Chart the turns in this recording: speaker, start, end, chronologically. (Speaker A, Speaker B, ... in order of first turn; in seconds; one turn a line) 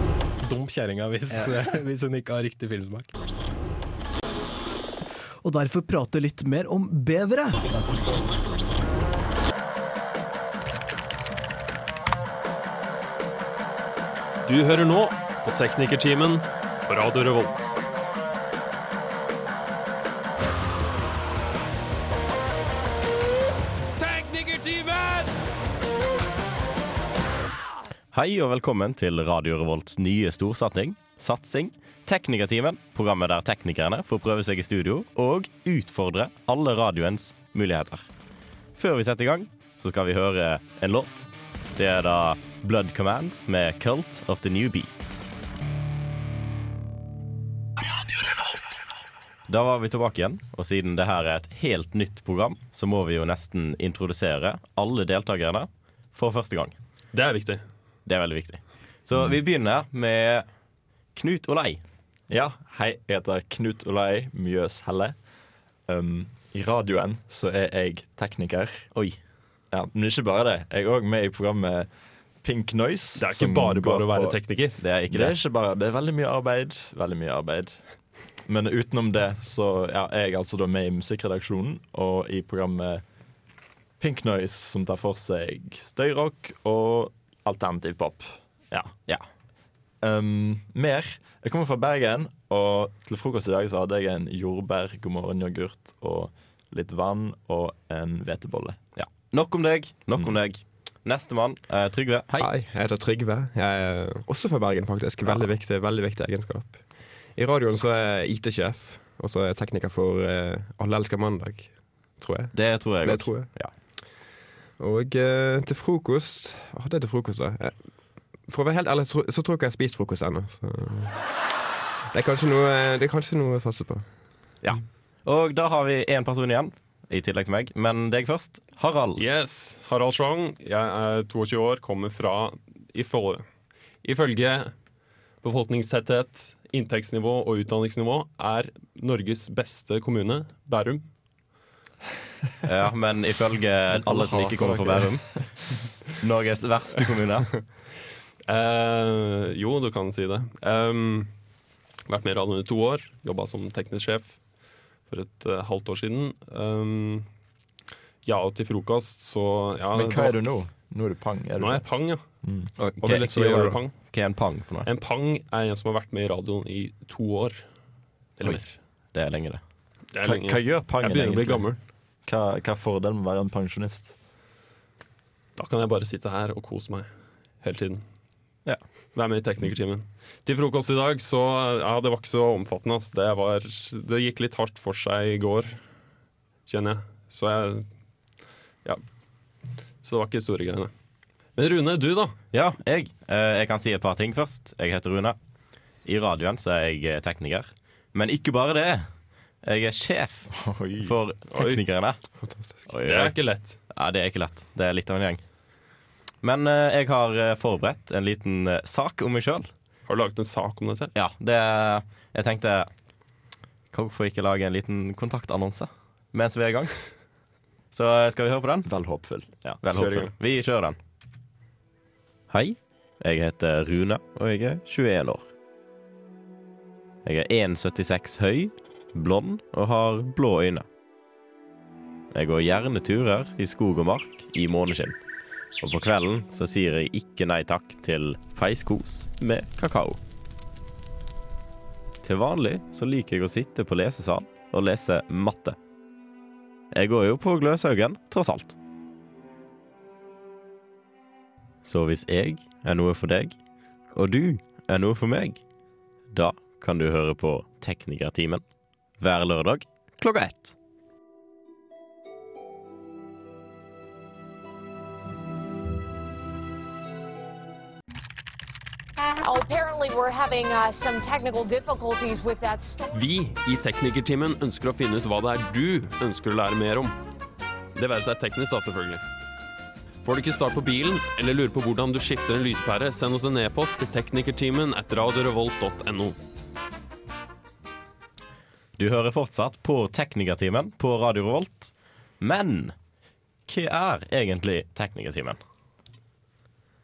Speaker A: 0.4-3.1
Speaker B: 5.4-7.7
Speaker C: 14.5-17.7
Speaker C: 24.0-25.3
Speaker D: 28.1-38.1
Speaker D: 38.8-45.3
Speaker D: 49.5-56.8
Speaker C: 57.1-57.6
Speaker D: 58.1-60.5
Speaker D: 61.1-61.8
Speaker E: 62.3-65.2
Speaker E: 65.9-68.8
Speaker E: 69.7-71.9
Speaker E: 72.4-74.4
Speaker C: 73.2-74.8
Speaker D: 74.8-75.4
Speaker E: 75.1-77.8
Speaker E: 78.5-83.0
Speaker E: 84.0-88.9
Speaker E: 90.0-98.8
Speaker D: 99.0-102.5
Speaker F: 102.4-106.8
Speaker F: 107.3-113.5
Speaker D: 112.5-113.7
Speaker F: 114.8-117.8
Speaker F: 118.5-121.2
Speaker F: 122.1-124.1
Speaker D: 124.6-129.2
Speaker C: 129.2-133.4
Speaker C: 134.0-134.7
Speaker C: 135.4-141.0
Speaker D: 142.6-145.4
Speaker E: 143.9-145.4
Speaker D: 146.2-147.5
Speaker C: 148.5-151.3
Speaker C: 152.1-154.4
Speaker C: 155.1-157.3
Speaker C: 158.2-160.4
Speaker E: 159.9-161.8
Speaker C: 161.6-162.2
Speaker E: 162.4-162.7
Speaker D: 162.8-164.9
Speaker C: 163.0-163.9
Speaker C: 164.8-167.6
Speaker C: 168.4-168.7
Speaker D: 169.1-169.6
Speaker C: 170.1-171.8
Speaker E: 170.2-171.7
Speaker E: 172.2-174.1
Speaker C: 175.6-177.1
Speaker C: 177.6-178.0
Speaker C: 179.2-185.8
Speaker C: 186.7-187.9
Speaker C: 190.0-190.9
Speaker C: 191.6-192.3
Speaker D: 192.5-195.4
Speaker D: 196.1-199.1
Speaker D: 199.6-200.5
Speaker E: 200.5-201.2
Speaker D: 201.0-202.2
Speaker C: 201.5-201.8
Speaker F: 202.4-202.8
Speaker D: 202.9-203.3
Speaker C: 203.1-203.8
Speaker D: 203.9-205.4
Speaker D: 206.4-209.7
Speaker C: 210.1-211.1
Speaker D: 211.2-212.9
Speaker D: 213.9-217.0
Speaker D: 217.9-218.9
Speaker E: 218.9-219.8
Speaker D: 219.8-221.0
Speaker C: 219.9-220.3
Speaker D: 222.5-225.4
Speaker D: 227.2-230.8
Speaker D: 232.3-235.2
Speaker D: 235.8-240.2
Speaker D: 242.2-245.8
Speaker D: 246.9-248.8
Speaker D: 251.8-253.5
Speaker D: 254.1-255.6
Speaker D: 256.3-258.6
Speaker D: 259.2-260.8
Speaker G: 269.4-273.2
Speaker C: 273.1-277.1
Speaker C: 277.9-279.2
Speaker C: 280.2-286.4
Speaker D: 289.0-292.9
Speaker D: 293.7-295.6